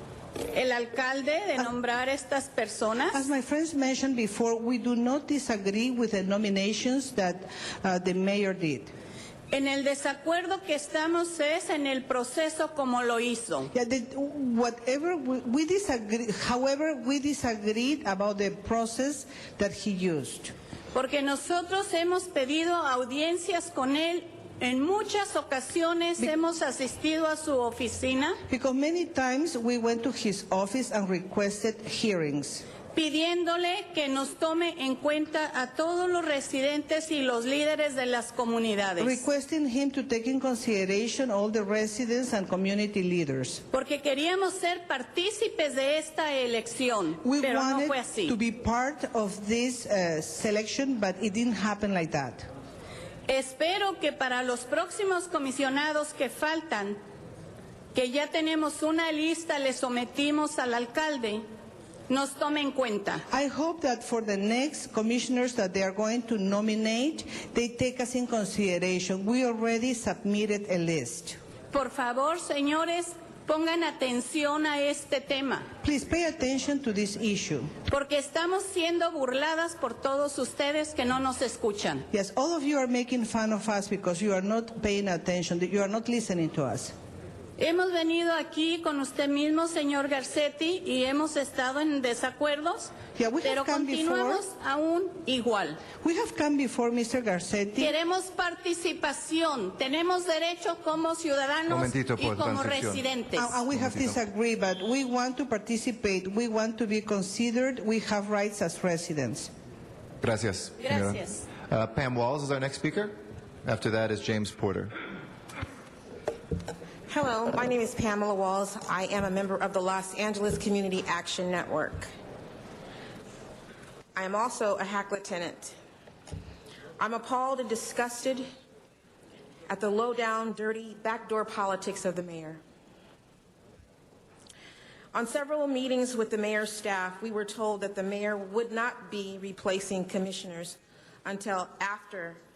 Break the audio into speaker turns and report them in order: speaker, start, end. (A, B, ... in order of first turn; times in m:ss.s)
0:00.5-0:03.2 A
0:03.1-0:08.9 B
0:09.5-0:13.7 A
0:13.7-0:20.5 B
0:20.9-0:28.4 A
0:28.5-0:32.6 B
0:32.9-0:39.2 A
0:39.0-0:43.6 B
0:43.7-0:48.3 A
0:47.2-0:52.4 B
0:53.3-0:57.0 A
0:57.9-1:01.4 A
1:02.1-1:03.2 A
1:03.3-1:11.4 B
1:11.7-1:15.6 A
1:15.8-1:17.7 B
1:17.9-1:22.0 A
1:22.1-1:26.9 B
1:27.6-1:32.9 A
1:33.2-1:34.4 B
1:33.4-1:35.8 A
1:36.0-1:38.0 B
1:37.8-1:43.6 A
1:41.7-1:43.0 C
1:43.4-1:49.5 B
1:43.7-1:44.2 C
1:50.2-1:54.9 C
1:50.8-1:51.4 A
1:57.1-2:02.1 D
2:04.1-2:05.8 D
2:07.0-2:08.4 D
2:09.7-2:12.6 D
2:15.1-2:22.4 D